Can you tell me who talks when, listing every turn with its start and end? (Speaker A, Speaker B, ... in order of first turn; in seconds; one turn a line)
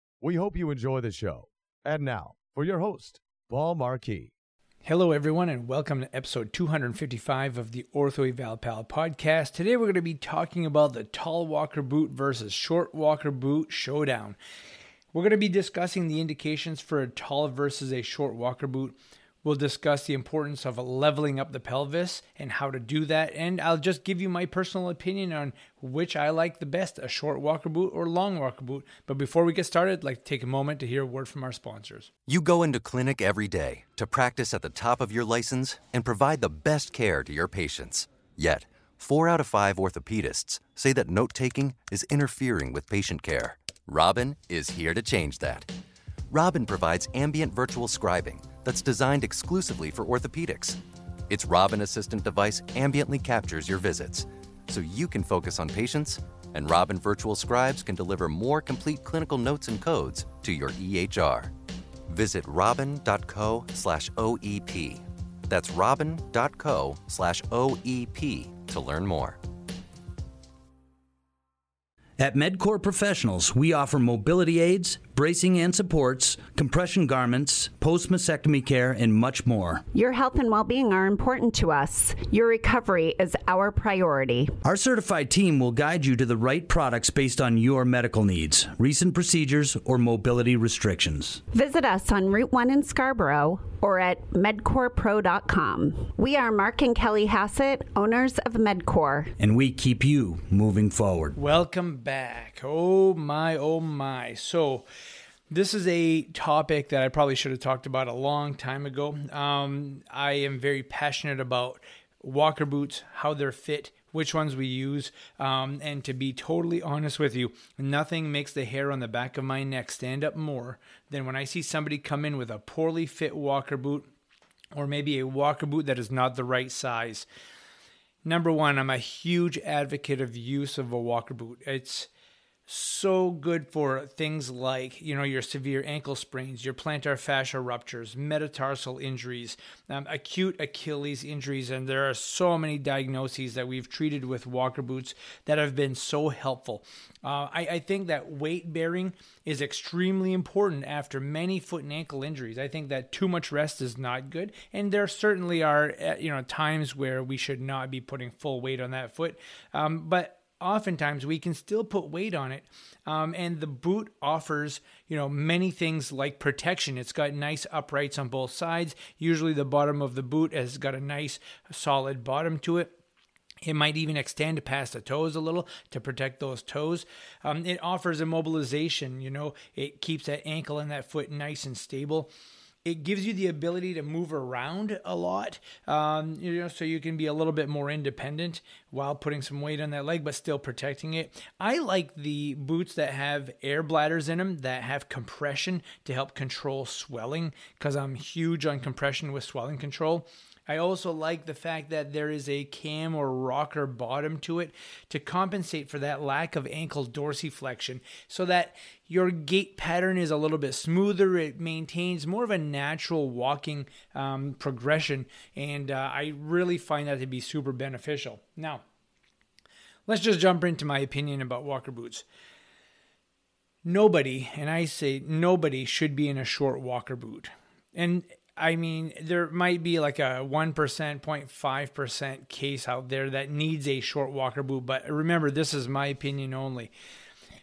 Speaker A: 0.2-4.3
Speaker B: 4.8-14.4
Speaker B: 15.1-32.1
Speaker C: 32.3-45.7
Speaker C: 46.3-61.5
Speaker C: 62.1-69.4
Speaker D: 72.2-79.8
Speaker E: 79.9-84.5
Speaker D: 84.6-91.4
Speaker E: 91.5-99.3
Speaker D: 99.4-101.3
Speaker B: 101.4-104.9
Speaker B: 105.5-124.1
Speaker B: 124.7-127.3
Speaker B: 128.2-132.1
Speaker B: 132.7-173.0
Speaker B: 173.6-182.3
Speaker B: 182.8-218.8
Speaker B: 220.1-222.2
Speaker B: 223.8-236.9